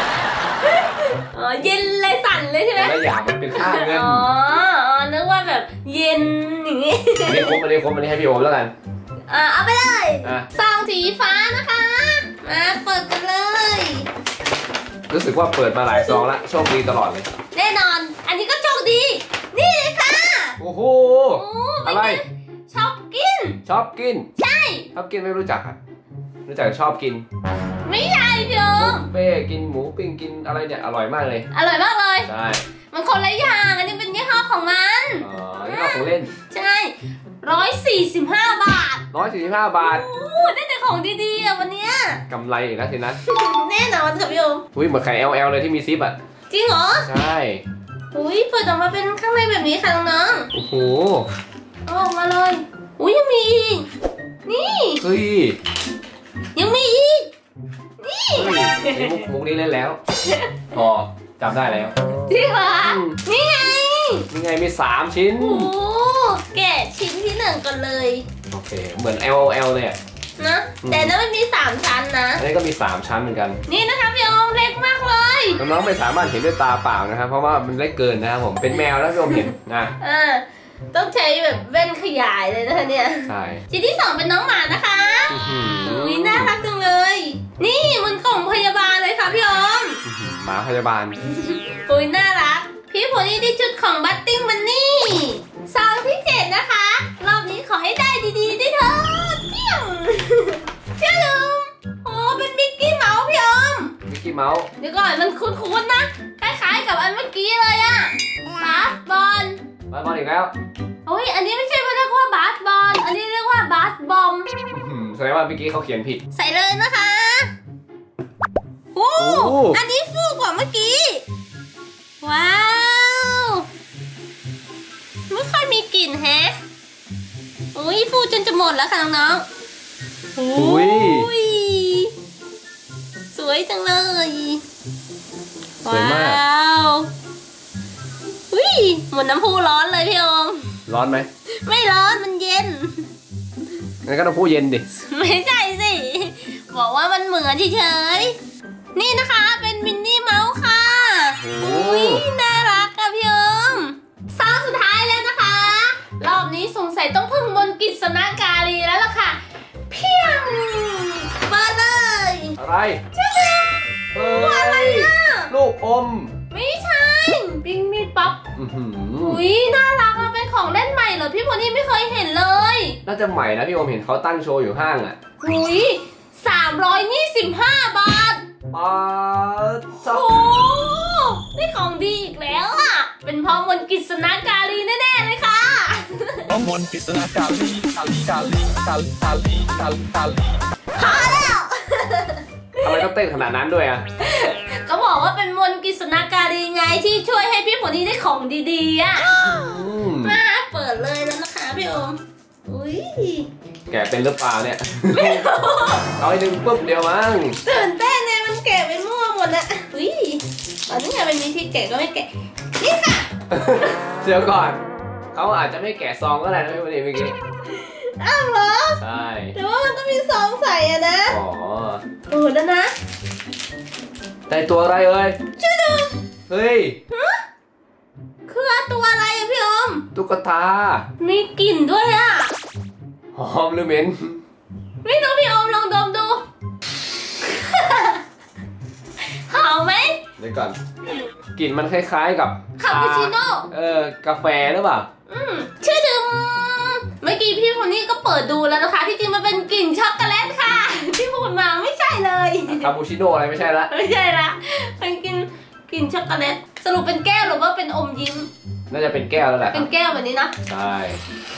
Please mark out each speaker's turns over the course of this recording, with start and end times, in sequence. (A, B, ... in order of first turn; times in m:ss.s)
0:00.6-0:07.6 A
0:02.8-0:04.2 B
0:07.2-0:08.7 B
0:09.3-0:14.1 A
0:15.1-0:17.3 B
0:17.5-0:20.6 A
0:20.6-0:22.2 B
0:21.3-0:23.6 A
0:23.6-0:24.3 B
0:24.4-0:24.9 A
0:24.9-0:25.8 B
0:26.4-0:27.2 B
0:27.8-0:29.1 A
0:28.7-0:31.5 B
0:31.5-0:32.3 A
0:32.2-0:32.6 B
0:32.9-0:39.0 A
0:35.2-0:36.3 B
0:39.1-0:40.0 B
0:39.8-0:42.2 A
0:42.3-0:43.2 B
0:43.2-0:44.6 A
0:44.7-0:46.2 B
0:46.5-0:47.1 A
0:47.0-0:47.6 B
0:48.1-0:50.5 A
0:50.5-0:51.3 B
0:51.8-0:53.9 A
0:54.4-0:55.0 A
0:55.0-0:55.6 B
0:56.5-0:57.3 A
0:58.0-0:59.2 A
0:58.3-1:00.0 B
1:00.2-1:00.5 A
1:00.7-1:01.9 B
1:02.3-1:04.3 A
1:02.8-1:03.2 B
1:04.3-1:05.7 B
1:05.4-1:08.2 A
1:08.5-1:10.0 B
1:10.4-1:12.4 A
1:10.8-1:11.1 B
1:12.4-1:13.6 B
1:13.7-1:15.6 A
1:15.6-1:19.9 B
1:19.3-1:30.0 A
1:23.3-1:23.6 B
1:25.3-1:26.5 B
1:30.0-1:31.2 B
1:31.2-1:43.9 A
1:44.1-1:44.7 B
1:44.8-1:49.6 A
1:49.9-1:50.5 B
1:51.0-1:54.5 A
1:54.7-1:56.2 B
1:56.3-1:57.5 A
1:58.9-2:01.2 A
1:59.2-1:59.8 B
2:02.2-2:03.6 A
2:05.3-2:06.5 A
2:07.7-2:09.5 A
2:10.4-2:12.1 A
2:10.5-2:11.3 B
2:13.3-2:14.6 A
2:15.8-2:17.1 A
2:15.8-2:16.4 B
2:18.5-2:20.7 A
2:20.9-2:21.3 B
2:21.6-2:23.1 A
2:24.0-2:24.8 B
2:25.0-2:28.4 A
2:28.9-2:42.6 A
2:31.4-2:32.2 B
2:42.6-2:43.0 B
2:43.1-2:45.5 A
2:44.1-2:46.3 B
2:46.5-2:48.4 A
2:48.6-2:49.4 B
2:49.2-2:53.0 A
2:53.0-2:55.2 B
2:55.4-2:58.4 A
2:58.7-3:00.3 B
3:00.0-3:06.6 A
3:06.5-3:10.4 C
3:10.9-3:13.0 A
3:12.8-3:14.0 B
3:14.2-3:19.4 A
3:19.4-3:20.4 B
3:20.2-3:23.5 A
3:23.9-3:25.4 B
3:25.1-3:26.1 A
3:26.1-3:27.6 B
3:27.6-3:33.3 A
3:33.5-3:37.3 B
3:37.7-3:39.0 A
3:39.0-3:39.6 B
3:39.5-3:41.4 A
3:41.3-3:42.0 B
3:42.3-3:42.9 A
3:44.5-3:45.4 B
3:45.6-3:46.1 A
3:46.5-3:47.0 B
3:47.1-3:47.4 A
3:48.5-3:50.0 A
3:50.1-3:51.0 B
3:51.2-3:52.5 A
3:53.3-3:54.4 B
3:55.0-3:56.4 A
3:57.4-3:58.2 A
3:59.2-4:00.2 A
4:00.4-4:00.8 B
4:01.6-4:05.1 B
4:02.8-4:03.7 A
4:05.3-4:12.9 A
4:12.7-4:13.9 B
4:13.9-4:18.5 A
4:18.9-4:19.9 B
4:19.7-4:20.5 A
4:20.7-4:21.2 B